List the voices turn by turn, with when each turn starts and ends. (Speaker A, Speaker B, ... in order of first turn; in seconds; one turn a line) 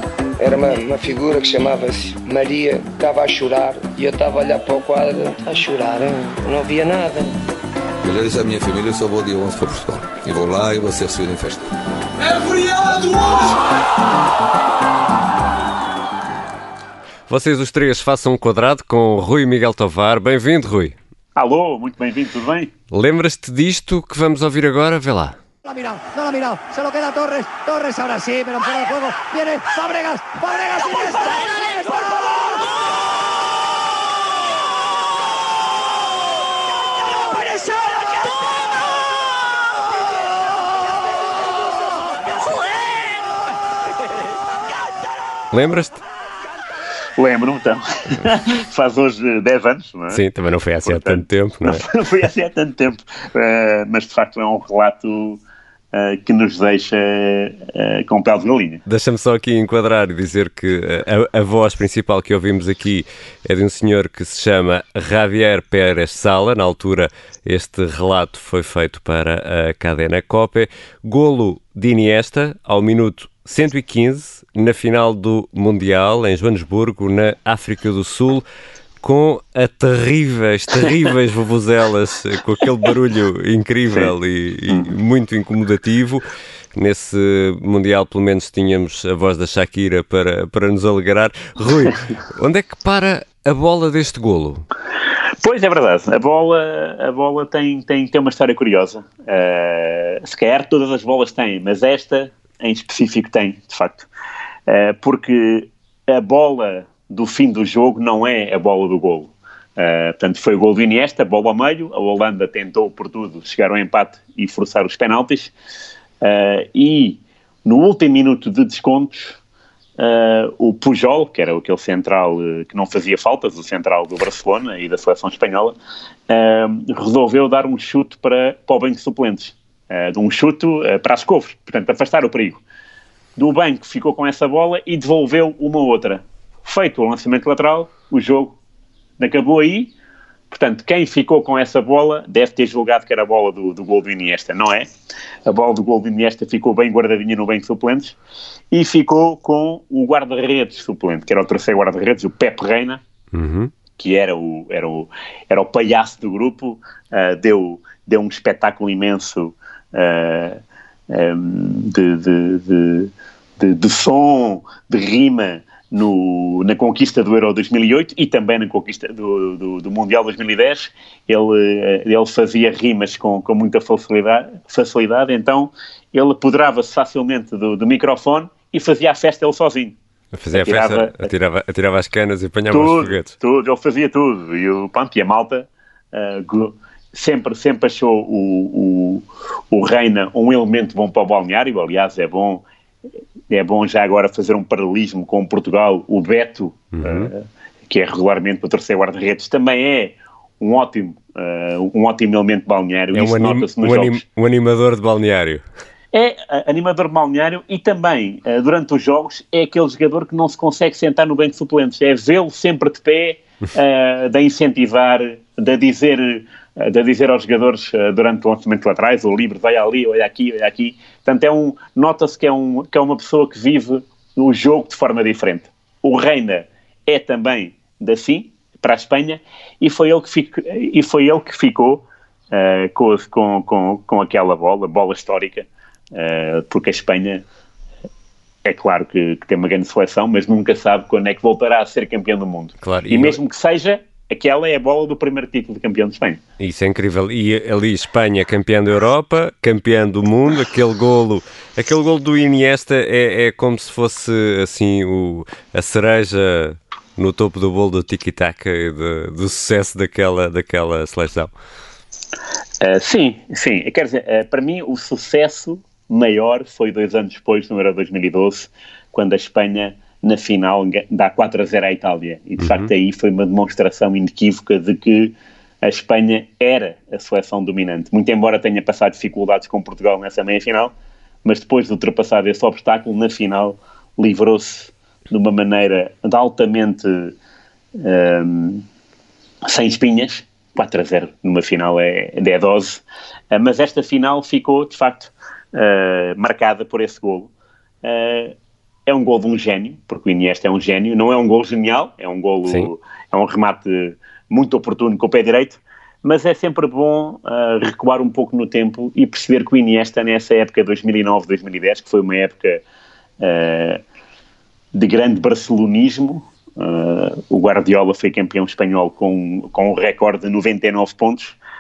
Speaker A: 0.4-7.4
Speaker B: 8.0-11.7
Speaker B: 12.3-13.3
Speaker C: 17.3-20.9
Speaker D: 21.4-22.7
Speaker C: 22.9-25.4
Speaker E: 25.7-31.3
Speaker C: 45.5-46.0
Speaker D: 47.2-50.2
Speaker C: 50.1-51.8
Speaker D: 50.9-55.4
Speaker D: 55.9-58.8
Speaker C: 58.9-78.5
Speaker C: 79.0-86.2
Speaker C: 86.8-94.7
Speaker D: 95.4-104.1
Speaker D: 104.7-115.5
Speaker D: 116.2-119.4
Speaker D: 120.0-125.8
Speaker D: 126.3-132.6
Speaker D: 133.4-138.6
Speaker D: 139.2-139.9
Speaker D: 140.5-144.9
Speaker D: 145.5-148.2
Speaker D: 148.7-153.0
Speaker C: 153.3-153.7
Speaker D: 154.0-180.0
Speaker C: 180.3-183.3
Speaker D: 180.5-181.2
Speaker D: 182.7-192.6
Speaker D: 193.5-204.2
Speaker C: 197.0-197.3
Speaker C: 203.1-205.6
Speaker D: 206.1-237.4
Speaker D: 238.7-246.4
Speaker C: 242.8-243.4
Speaker C: 246.6-261.5
Speaker D: 262.8-280.9
Speaker C: 272.6-272.9
Speaker D: 281.4-287.4
Speaker D: 288.0-288.8
Speaker D: 289.7-297.5
Speaker D: 298.0-298.6
Speaker D: 299.1-312.8
Speaker C: 302.7-302.9
Speaker D: 313.4-314.0
Speaker D: 314.9-321.6